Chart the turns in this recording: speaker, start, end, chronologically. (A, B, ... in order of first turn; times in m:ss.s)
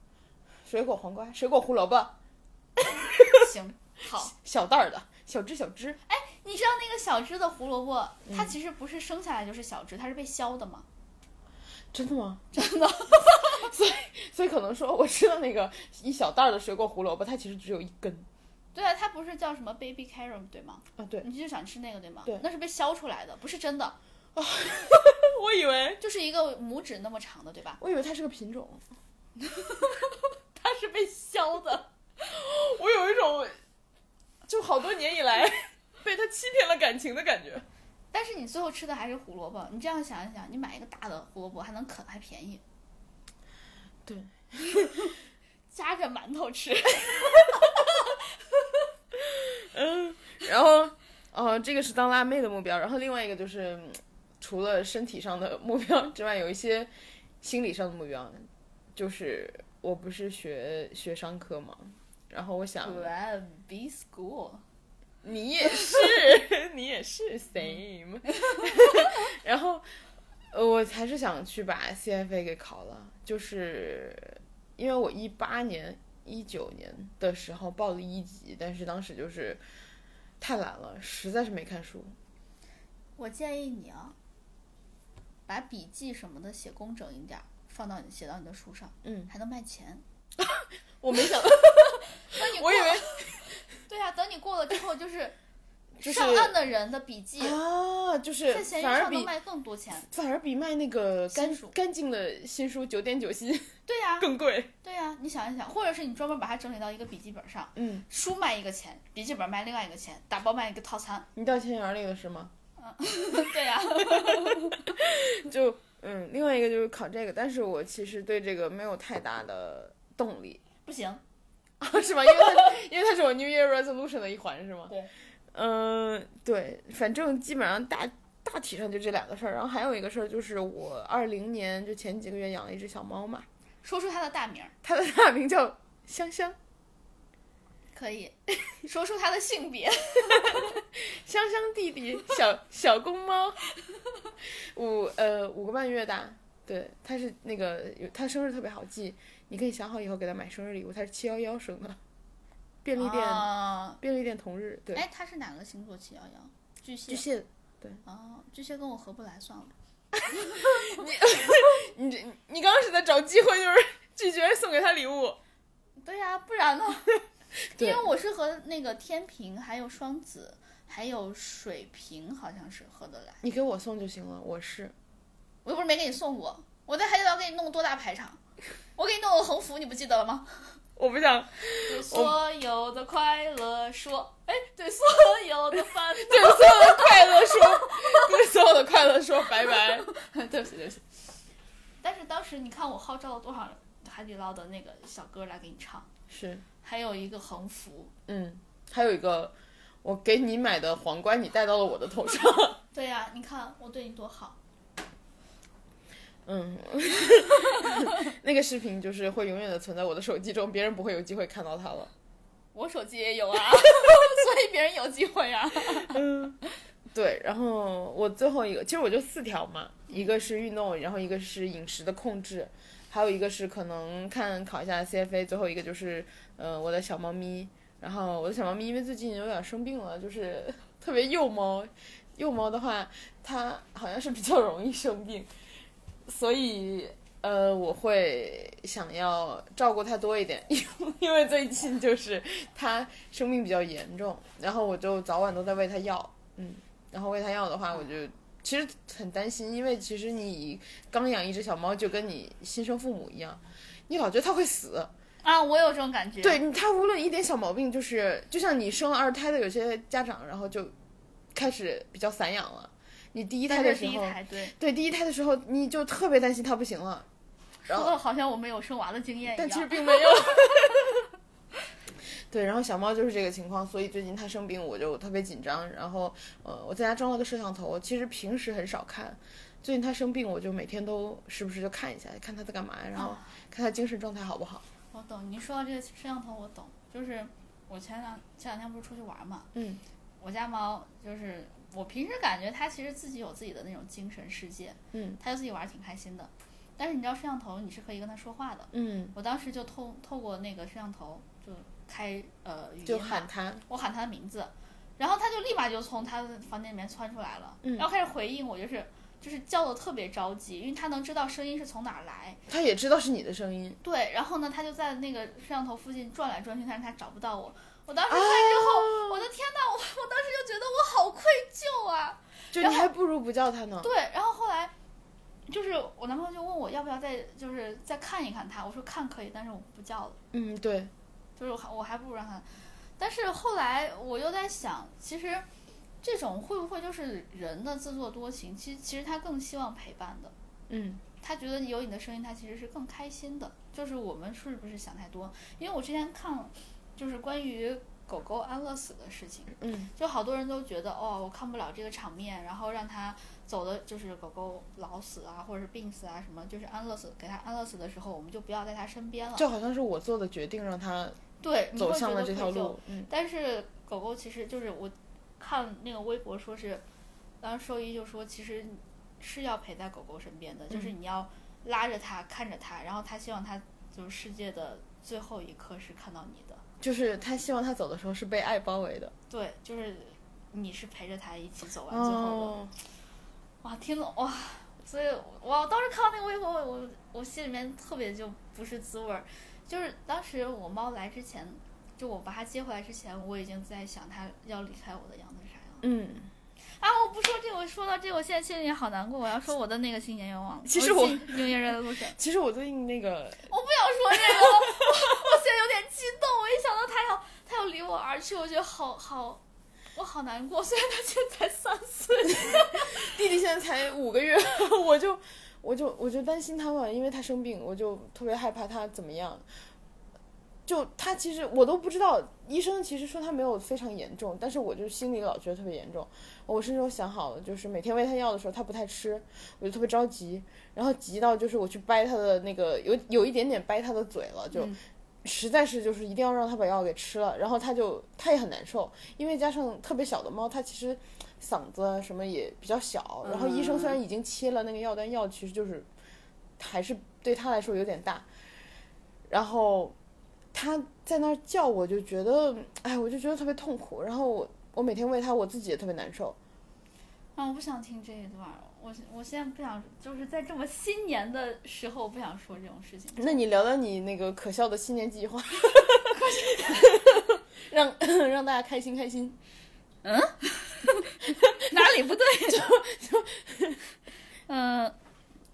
0:00.6-0:02.2 A
0:02.8-0:03.4 A
0:03.3-0:04.3 B
0:04.3-0:06.0 A
0:06.1-0:10.9 B
0:11.9-0:12.5 A
0:12.5-0:13.7 B
0:13.2-0:18.3 A
0:18.7-0:24.0 B
0:21.0-0:21.2 A
0:24.4-0:26.0 A
0:26.0-0:27.8 B
0:27.8-0:28.8 A
0:29.4-0:31.9 B
0:32.2-0:33.6 A
0:34.5-0:37.6 A
0:38.1-0:42.6 B
0:44.1-0:45.0 A
0:44.7-0:45.1 B
0:45.7-0:48.2 B
0:49.1-0:56.9 A
0:57.4-1:03.1 A
1:02.8-1:04.6 B
1:05.2-1:10.0 A
1:05.7-1:06.0 B
1:10.5-1:19.6 A
1:20.4-1:22.2 A
1:23.2-1:24.2 B
1:25.5-1:30.0 B
1:29.0-1:29.3 A
1:30.4-1:33.5 A
1:32.1-1:35.4 B
1:36.0-1:36.6 A
1:36.0-1:37.6 B
1:37.4-1:39.3 A
1:38.5-1:40.1 B
1:40.1-1:44.7 A
1:41.3-1:41.8 B
1:43.9-1:44.3 B
1:44.8-1:51.3 B
1:47.8-1:48.1 A
1:51.4-1:52.5 A
1:52.8-1:54.9 B
1:54.1-2:00.6 A
2:00.9-2:01.2 B
2:01.8-2:05.0 A
2:05.5-2:13.5 A
2:13.8-2:14.7 B
2:14.8-2:16.6 A
2:17.9-2:20.8 B
2:20.5-2:23.6 A
2:24.4-2:32.0 A
2:32.8-2:35.0 A
2:33.0-2:34.0 B
2:34.9-2:37.3 B
2:37.1-2:38.0 A
2:38.0-2:39.7 B
2:40.3-2:45.4 A
2:40.3-2:41.0 B
2:46.0-2:53.4 B
2:47.8-2:48.1 A
2:53.4-2:54.9 A
2:55.6-2:58.4 B
2:59.0-3:00.8 B
3:01.0-3:02.4 A
3:01.8-3:08.3 B
3:06.1-3:10.1 A
3:09.6-3:11.0 B
3:12.0-3:16.1 B
3:16.3-3:16.6 A
3:16.8-3:18.1 B
3:18.3-3:22.8 A
3:22.9-3:24.6 B
3:26.5-3:32.1 A
3:32.7-3:36.2 B
3:36.1-3:36.6 A
3:37.1-3:55.5 A
3:56.3-4:15.1 A
4:15.4-4:16.6 B
4:16.4-4:20.9 A
4:21.5-4:27.3 A
4:23.7-4:24.7 B
4:27.9-4:28.1 A
4:27.9-4:31.1 B
4:29.6-4:31.2 A
4:32.3-4:44.8 A
4:43.1-4:43.5 B
4:45.1-4:49.7 B
4:49.7-4:50.0 A
4:50.4-5:12.6 B
4:55.1-4:55.4 A
4:58.9-4:59.4 A
5:03.0-5:03.8 A
5:12.7-5:14.0 A
5:14.0-5:23.1 B
5:18.3-5:19.5 A
5:22.7-5:24.1 A
5:24.0-5:24.9 B
5:25.7-5:30.4 B
5:30.5-5:31.1 A
5:31.6-5:35.7 B
5:36.2-5:40.5 B
5:40.9-5:41.2 A
5:41.4-5:59.7 B
5:49.8-5:50.1 A
5:59.6-6:01.4 A
6:01.6-6:07.0 B
6:01.9-6:03.3 A
6:07.6-6:16.8 B
6:17.0-6:19.3 A
6:19.5-6:22.8 B
6:22.1-6:22.9 A
6:23.8-6:36.0 B
6:36.0-6:36.5 A
6:37.0-6:42.4 B
6:40.9-6:43.7 A
6:43.7-6:49.6 B
6:44.5-6:45.1 A
6:50.1-6:53.4 B
6:52.6-6:59.6 A
7:00.9-7:26.1 A
7:14.7-7:15.0 B
7:23.4-7:24.2 B
7:26.8-7:28.4 A
7:29.5-7:30.1 A
7:30.7-7:36.6 A
7:37.6-7:43.6 B
7:43.4-7:49.6 A
7:46.3-7:47.3 B
7:50.2-7:52.9 B
7:52.7-7:54.0 A
7:54.7-7:55.2 B